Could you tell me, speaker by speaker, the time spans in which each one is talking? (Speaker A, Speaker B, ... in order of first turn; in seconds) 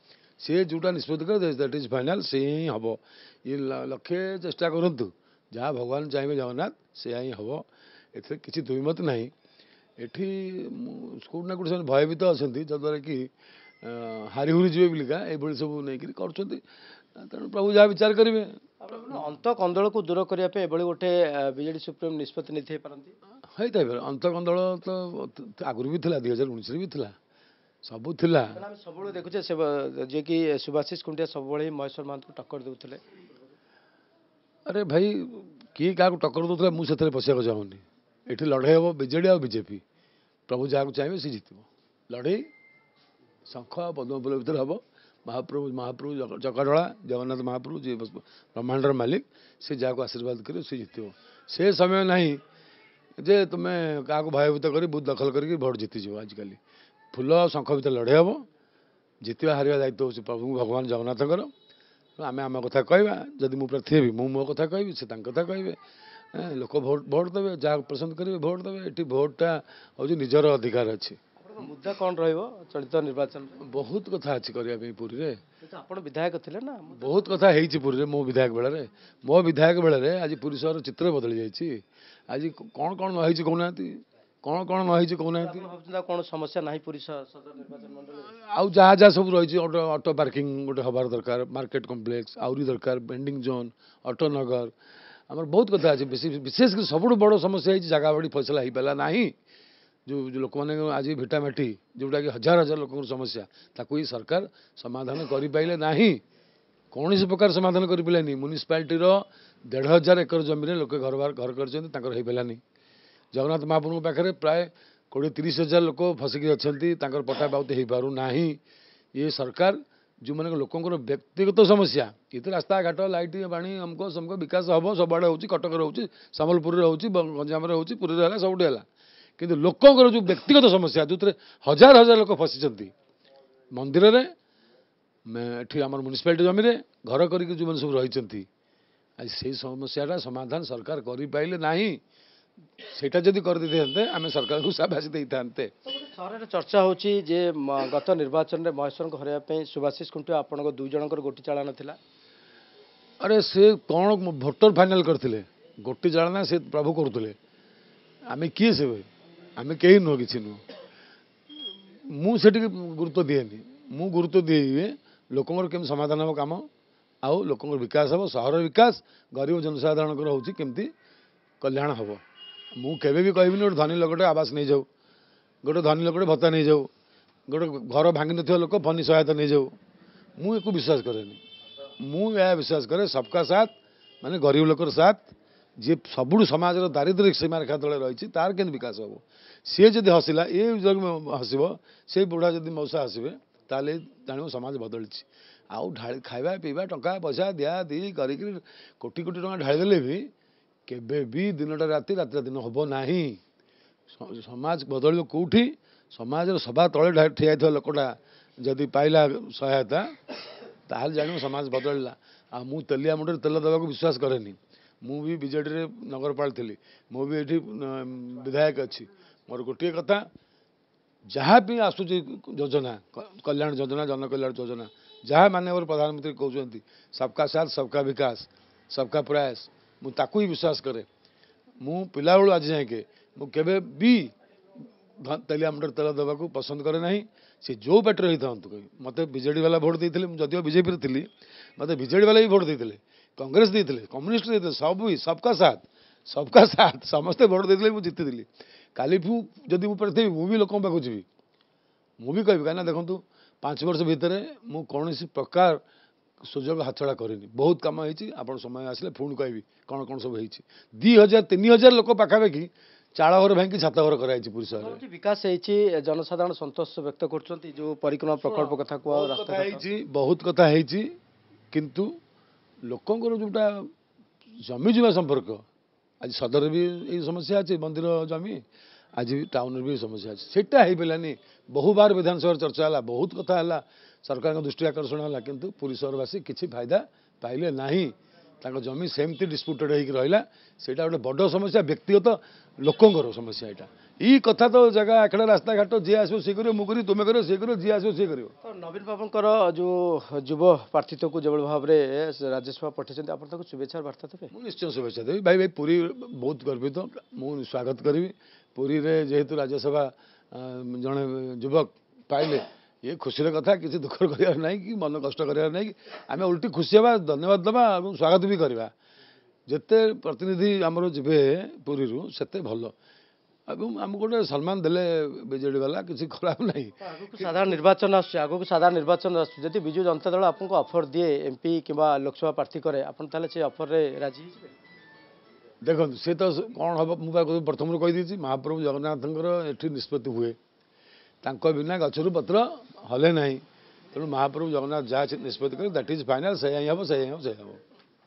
Speaker A: 0.4-9.3, 10.0-13.3, 13.8-16.6, 17.1-18.6, 23.5-27.1, 27.8-28.6, 34.7-39.8, 40.5-42.5, 43.5-52.4, 53.2-56.6, 57.1-58.5, 59.2-61.5, 62.2-65.8, 66.3-71.2, 73.6-75.4, 76.9-85.7, 88.4-94.7, 95.3-99.3, 100.1-106.2, 106.9-112.6, 113.3-118.6, 119.2-128.9, 129.4-132.9, 133.7-134.3, 135.3-138.5, 139.2-142.0, 142.9-145.7, 153.2-157.4, 158.3-160.6, 162.1-166.7, 167.2-170.9, 171.6-172.2, 172.8-174.9, 175.6-176.9, 177.5-179.7, 180.4-181.4, 182.0-200.3, 200.9-203.4, 204.1-210.2, 210.9-220.3, 221.3-231.1, 231.8-234.3, 235.2-251.3, 252.2-255.8, 256.4-265.0, 268.5-271.1, 271.7-272.2, 272.8-273.9, 274.6-275.6, 276.2-278.6, 279.2-298.5, 304.5-318.9, 319.7-322.9, 323.7-327.8, 335.8-340.6, 341.4-347.8
Speaker B: 18.8-23.1, 28.5-33.0, 71.4-73.6, 75.6-77.1, 85.4-88.4, 145.9-152.0, 264.8-269.8, 298.6-304.5, 327.0-334.8